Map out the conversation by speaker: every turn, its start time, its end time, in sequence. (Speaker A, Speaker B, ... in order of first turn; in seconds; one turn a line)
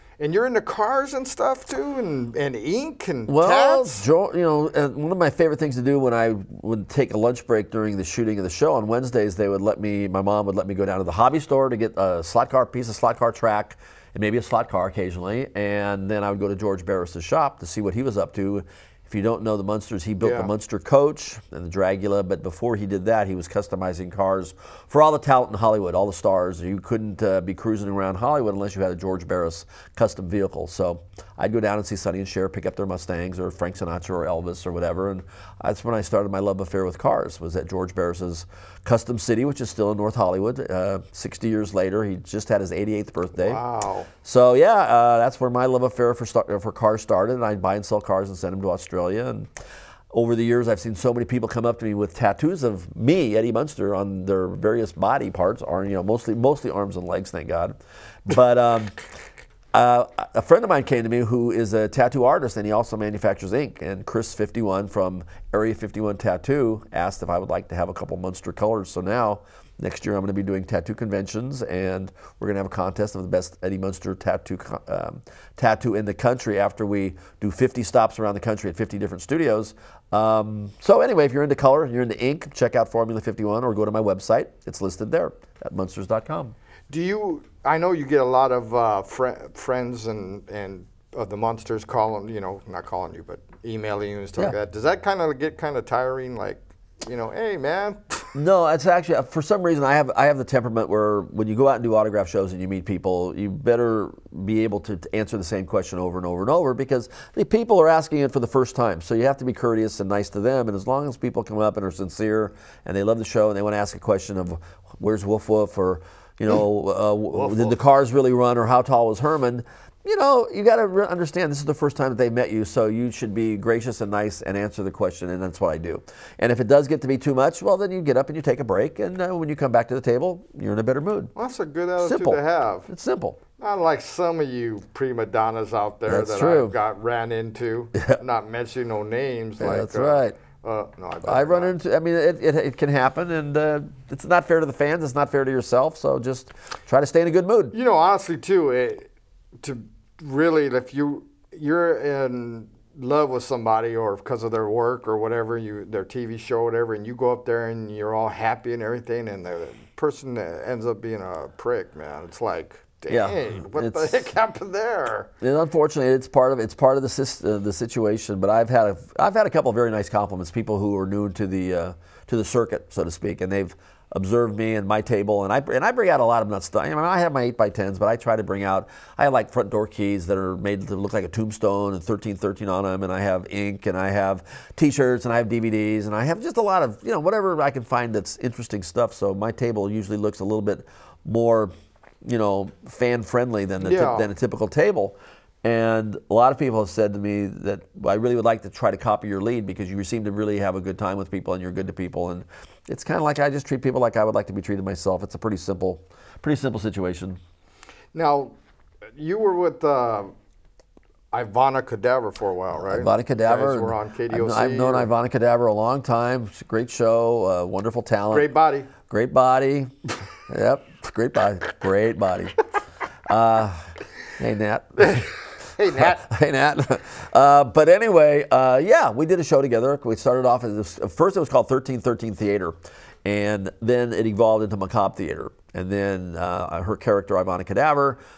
Speaker A: 0.2-4.1
Speaker B: 3.3-43.6
Speaker A: 20.2-20.5
Speaker A: 43.4-44.1
Speaker B: 44.2-49.5
Speaker B: 50.1-58.9
Speaker B: 59.7-86.5
Speaker A: 86.9-98.3
Speaker B: 98.3-131.3
Speaker A: 117.3-117.8
Speaker A: 131.3-132.9
Speaker B: 132.0-133.4
Speaker A: 133.6-141.7
Speaker B: 136.1-136.8
Speaker B: 139.6-140.4
Speaker B: 141.2-147.8
Speaker A: 147.7-149.1
Speaker A: 149.6-165.3
Speaker B: 163.1-164.2
Speaker B: 165.4-191.7
Speaker B: 192.2-207.4
Speaker A: 193.8-194.3
Speaker A: 208.1-208.6
Speaker A: 209.2-210.3
Speaker A: 211.3-215.1
Speaker B: 212.8-218.5
Speaker A: 218.3-218.9
Speaker B: 219.0-222.6
Speaker B: 223.3-225.3
Speaker A: 225.0-226.3
Speaker B: 225.9-238.2